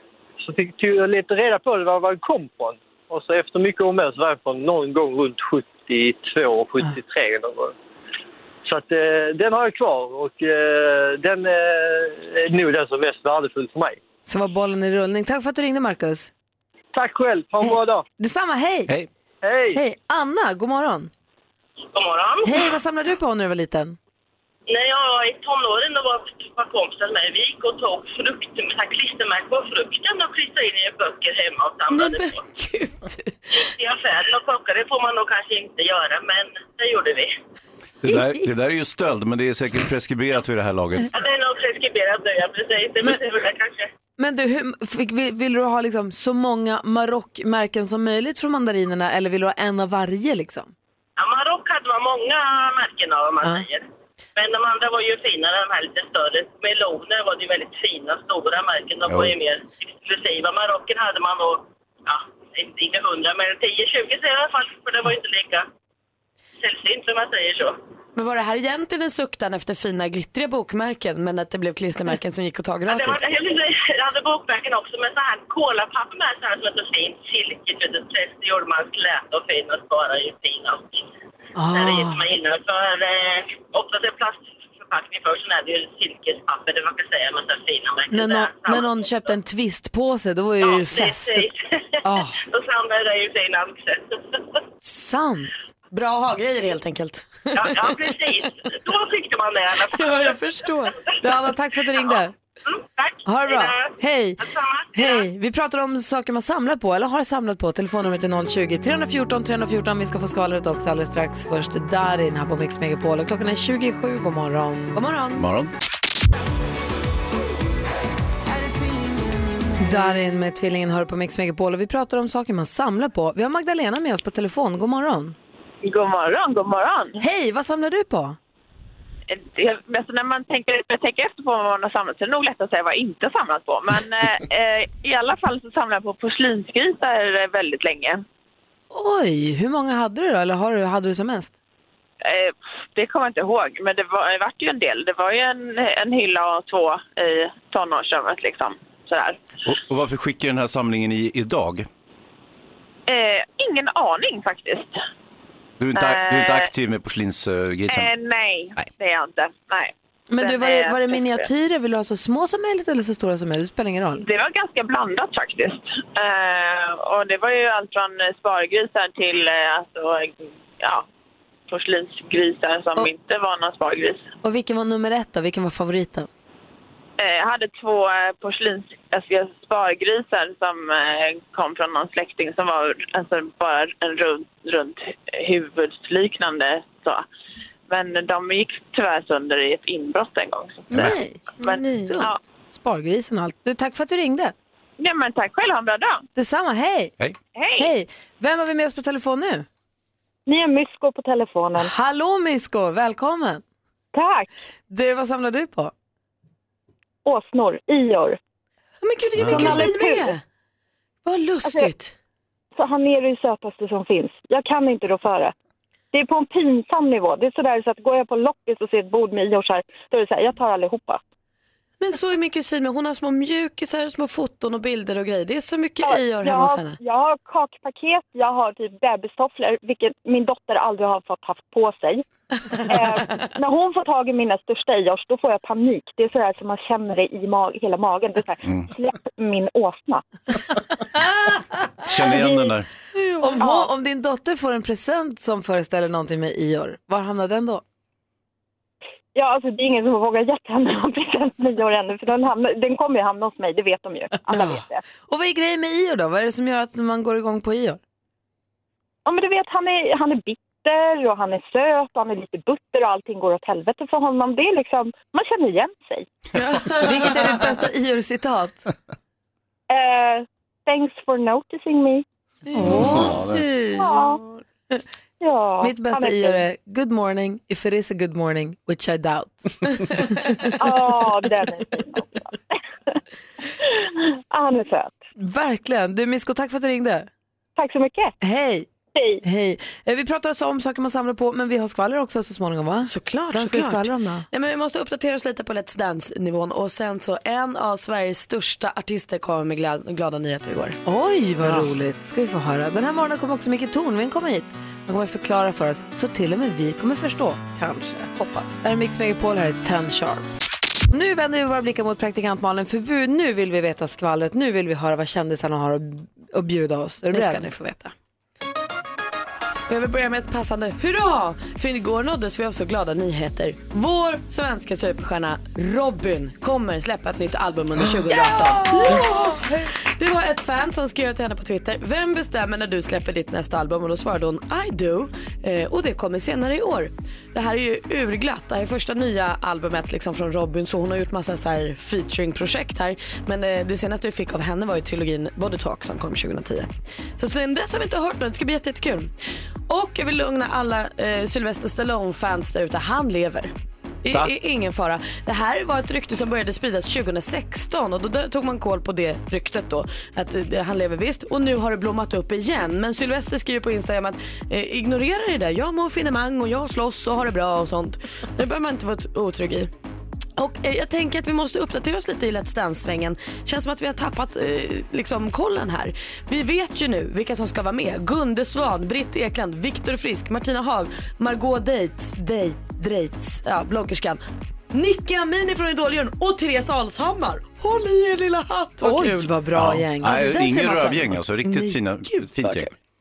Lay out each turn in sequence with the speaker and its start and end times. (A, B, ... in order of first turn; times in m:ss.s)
0:00.4-0:07.8 A
0:08.6-0:14.0 A
0:14.2-0:16.3 B
0:16.9-0:18.0 A
0:17.6-0:18.9 B
0:19.4-0:19.8 A
0:19.7-0:21.1 B
0:21.9-0:22.7 C
0:22.4-0:24.0 B
0:24.7-0:32.4 C
0:31.9-0:33.6 D
0:33.6-0:37.3 C
0:38.0-0:41.1 E
0:38.1-0:38.5 B
0:41.1-0:43.9 C
0:44.2-0:50.7 B
0:51.2-0:53.8 C
0:54.4-1:05.7 C
0:59.1-0:59.3 E
1:06.6-1:07.8 C
1:08.2-1:13.2 D
1:12.9-1:21.1 C
1:21.6-1:22.2 B
1:21.7-1:29.3 C
1:28.1-1:31.5 B
1:30.6-1:34.4 C
1:32.0-1:32.4 B
1:34.8-1:35.5 B
1:35.9-1:38.1 D
1:37.5-1:41.2 C
1:39.9-1:41.0 D
1:41.2-1:42.3 B
1:42.6-1:45.3 C
1:43.3-1:44.4 B
1:44.9-1:55.0 B
1:54.9-1:55.4 D
1:55.4-1:55.7 E
1:58.4-2:00.1 D
1:59.8-2:05.4 B
2:05.8-2:07.2 F
2:07.2-2:08.4 B
2:09.3-2:18.2 F
2:18.9-2:21.6 B
2:22.2-2:29.4 F
2:29.6-2:31.9 E
2:33.1-2:35.0 F
2:35.8-2:38.1 E
2:36.0-2:36.7 F
2:37.9-2:41.5 F
2:40.3-2:44.2 B
2:44.2-2:51.0 F
2:51.7-2:54.3 F
2:54.4-2:56.3 B
2:57.2-3:07.2 F
3:07.9-3:12.4 F
3:10.9-3:14.5 B
3:11.6-3:12.3 D
3:15.0-3:16.2 F
3:16.4-3:17.1 B
3:17.6-3:17.9 F
3:17.8-3:19.7 B
3:20.5-3:21.9 G
3:21.8-3:23.6 B
3:24.1-3:24.5 G
3:24.9-3:25.9 B
3:27.2-3:28.4 G
3:29.0-3:30.4 D
3:29.4-3:29.9 E
3:29.5-3:30.3 G
3:31.2-3:32.1 D
3:31.6-3:31.9 G
3:32.8-3:35.5 G
3:36.1-3:41.2 G
3:42.0-3:47.0 D
3:46.0-3:52.2 G
3:52.8-4:00.2 G
4:02.0-4:02.9 E
4:02.2-4:02.7 G
4:03.4-4:07.8 B
4:09.4-4:15.0 G
4:14.5-4:18.0 B
4:19.2-4:26.3 G
4:26.6-4:27.8 D
4:27.0-4:28.9 B
4:29.9-4:32.2 G
4:32.7-4:34.0 B
4:32.8-4:34.2 D
4:33.9-4:34.4 G
4:35.4-4:36.6 G
4:35.8-4:40.8 B
4:40.8-4:43.1 G
4:43.8-4:45.2 G
4:45.4-4:47.3 B
4:47.8-4:48.3 G
4:48.4-4:48.9 B
4:49.2-4:49.4 G
4:49.4-4:54.5 B
4:53.0-5:01.0 D
5:01.0-5:10.5 B
5:01.6-5:01.9 D
5:08.4-5:08.8 D
5:11.1-5:17.7 B
5:17.3-5:18.1 D
5:19.9-5:49.3 D
5:28.3-5:29.9 B
5:49.9-5:53.7 D
5:54.2-6:09.9 D
6:10.6-6:24.4 D
6:24.9-6:29.6 D
6:29.0-6:31.2 B
6:29.7-6:32.9 E
6:30.2-6:32.9 D